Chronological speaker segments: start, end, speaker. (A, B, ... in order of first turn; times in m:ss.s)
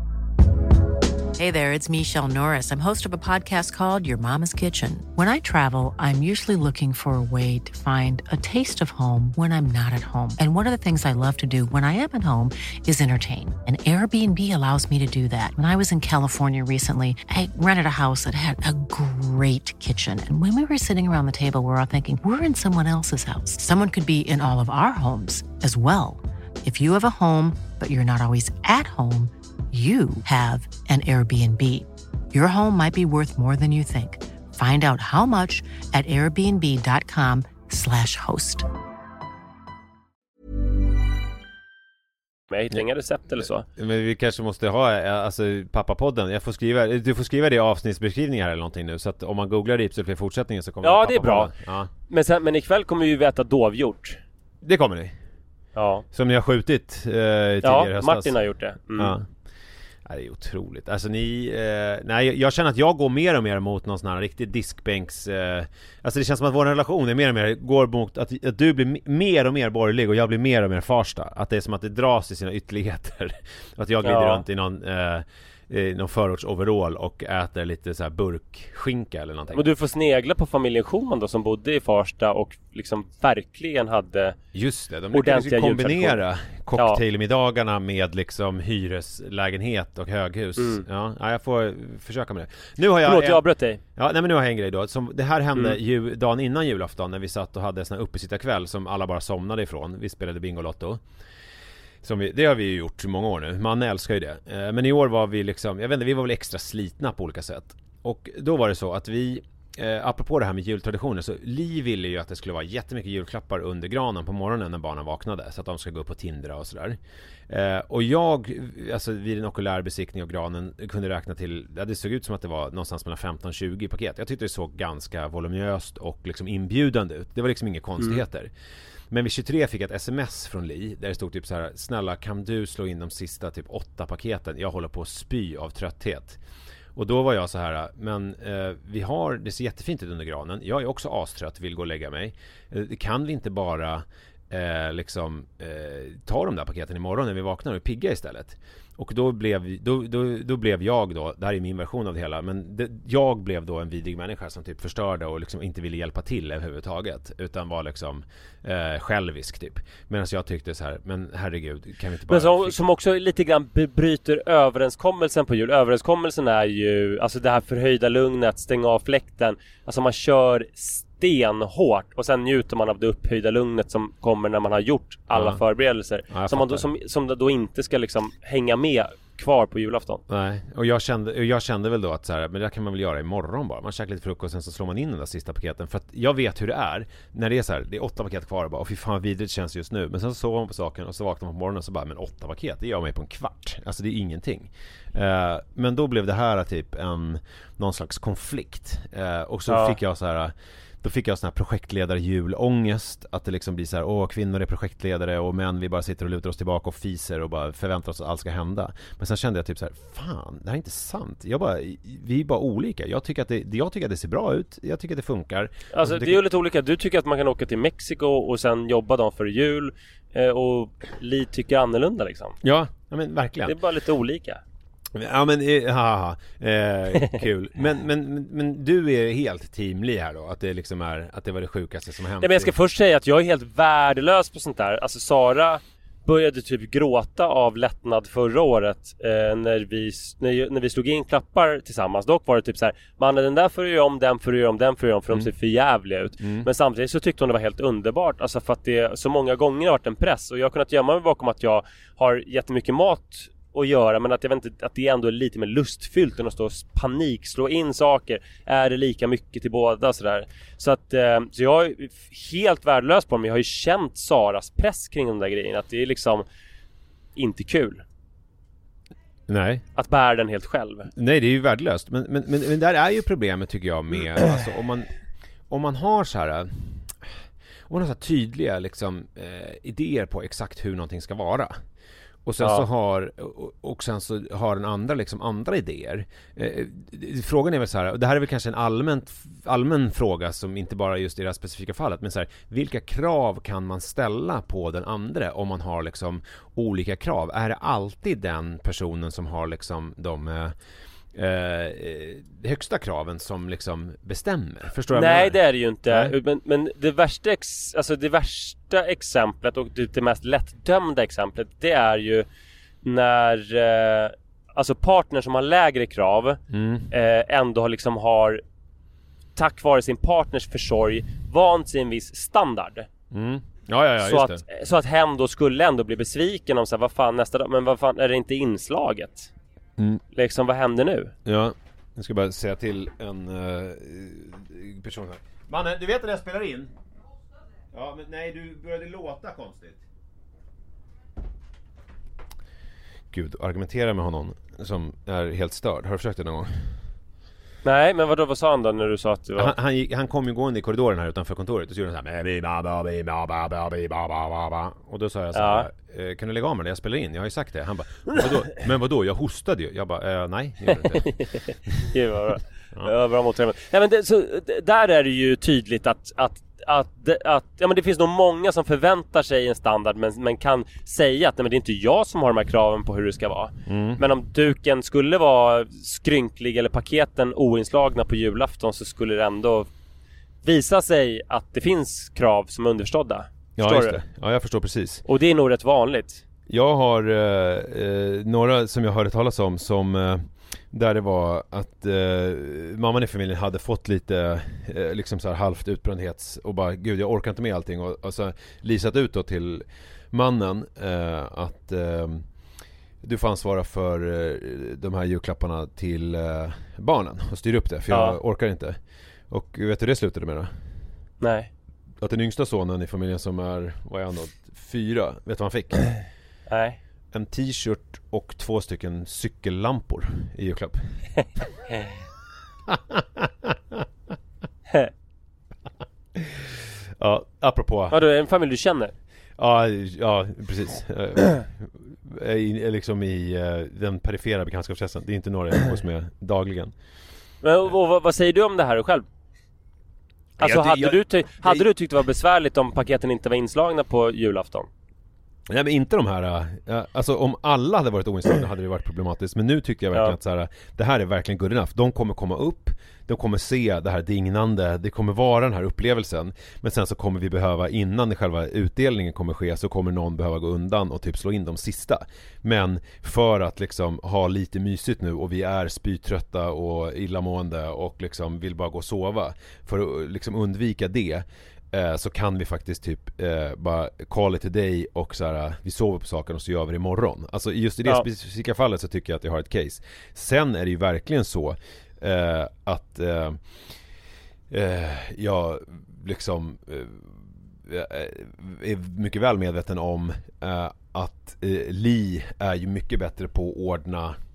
0:01.4-0:38.7 A
0:42.5-0:43.7 B
0:43.7-0:51.9 C
0:50.8-0:51.5 B
0:52.1-0:54.2 B
0:54.6-0:55.2 C
0:55.8-0:56.0 B
0:56.1-0:58.4 C
0:57.6-0:59.2 B
0:59.0-0:59.3 C
1:00.0-1:19.7 C
1:14.0-1:14.4 B
1:19.5-1:24.4 B
1:24.5-1:41.0 C
1:25.1-1:26.2 B
1:26.8-1:27.0 B
1:30.6-1:30.8 B
1:33.0-1:33.8 B
1:42.0-1:57.0 C
1:57.5-2:08.5 C
2:09.1-2:16.4 C
2:17.0-2:42.8 C
2:42.3-3:00.2 B
2:55.3-2:55.6 C
2:56.3-2:56.9 C
3:00.3-3:36.4 C
3:19.7-3:20.0 B
3:35.9-3:42.6 B
3:42.6-3:43.8 C
3:43.6-3:44.6 B
3:45.1-3:52.7 C
3:52.4-4:26.4 B
4:06.4-4:06.7 C
4:27.4-4:28.0 B
4:29.5-4:29.8 C
4:30.0-4:31.1 B
4:31.1-4:35.1 C
4:35.7-4:37.3 C
4:37.9-4:41.8 C
4:42.4-5:00.8 C
5:01.3-5:06.4 C
5:05.1-5:12.5 B
5:13.0-5:18.6 B
5:16.7-5:17.1 C
5:19.6-5:23.1 B
5:23.3-5:24.6 C
5:24.2-5:29.5 B
5:30.0-5:30.2 C
5:30.3-5:31.3 B
5:31.4-5:36.9 C
5:37.9-5:40.0 C
5:43.3-5:46.9 C
5:47.8-5:49.8 B
5:49.6-6:01.4 C
5:55.5-5:55.9 B
6:01.0-6:19.9 B
6:13.9-6:14.2 C
6:20.6-6:24.2 B
6:23.8-6:25.2 C
6:25.3-6:26.4 B
6:26.7-6:42.5 C
6:43.2-6:49.0 C
6:48.1-6:48.4 B
6:49.5-6:50.7 C
6:51.4-6:51.7 B
6:52.2-6:56.0 C
6:56.7-6:57.0 B
6:57.3-7:01.1 C
7:02.9-7:04.0 C
7:06.4-7:08.2 C
7:08.1-7:09.1 B
7:09.6-7:16.9 C
7:17.6-7:19.3 B
7:20.6-7:21.8 C
7:20.6-7:24.9 B
7:25.7-8:03.7 C
8:04.7-8:07.3 C
8:07.9-8:14.4 C